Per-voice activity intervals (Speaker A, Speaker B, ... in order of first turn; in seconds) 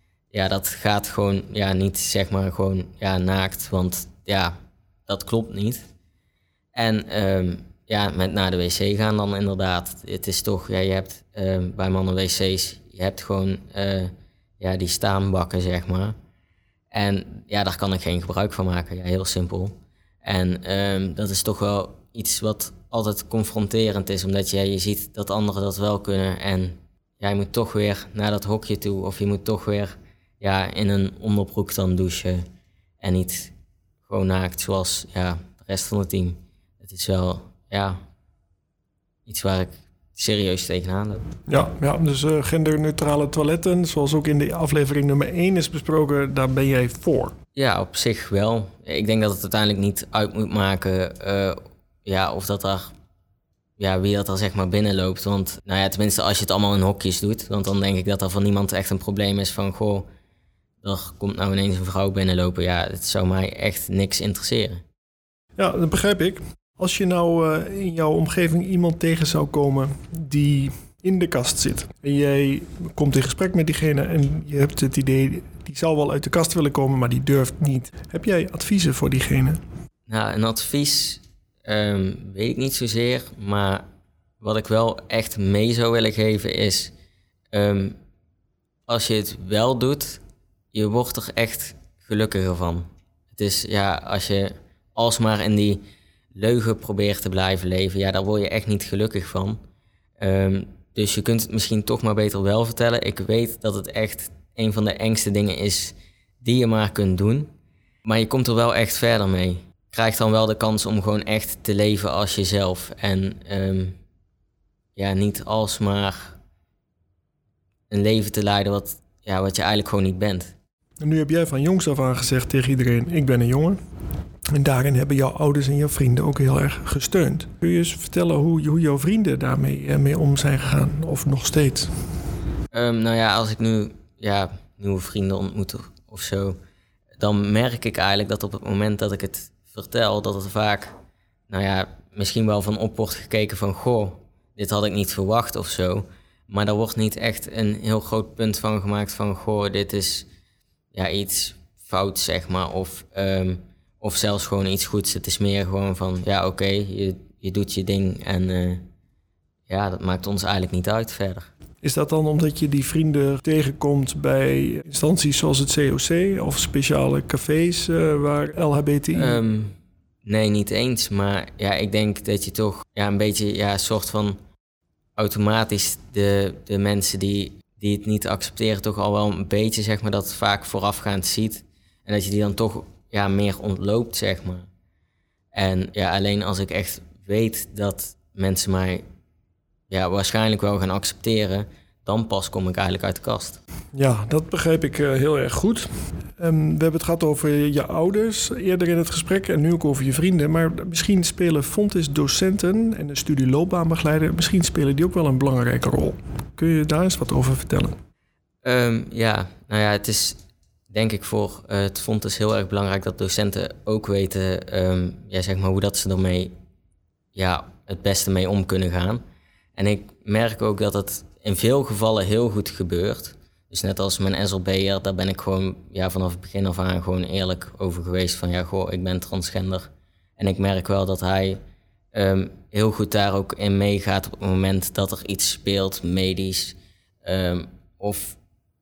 Speaker A: 0.3-4.5, 5.1-5.9, 6.8-16.2, 16.9-32.5, 33.0-33.5, 34.1-38.0, 39.3-41.2, 47.6-52.9, 53.8-60.1, 60.8-64.8, 80.1-83.8, 84.4-86.9, 87.5-88.0, 88.9-90.2, 90.7-95.8, 96.3-99.6, 100.2-107.5, 108.0-114.0, 115.0-116.4, 117.9-120.5, 132.7-136.6, 137.2-141.0, 141.5-150.3, 150.9-158.9, 159.7-161.5, 169.1-174.4, 175.2-184.7, 185.5-189.0, 189.9-193.6, 208.6-216.5, 217.3-219.2, 219.8-231.6, 232.1-238.4
Speaker B: 41.5-47.4, 65.6-79.6, 121.0-123.8, 124.5-132.0, 161.8-169.4, 193.9-208.0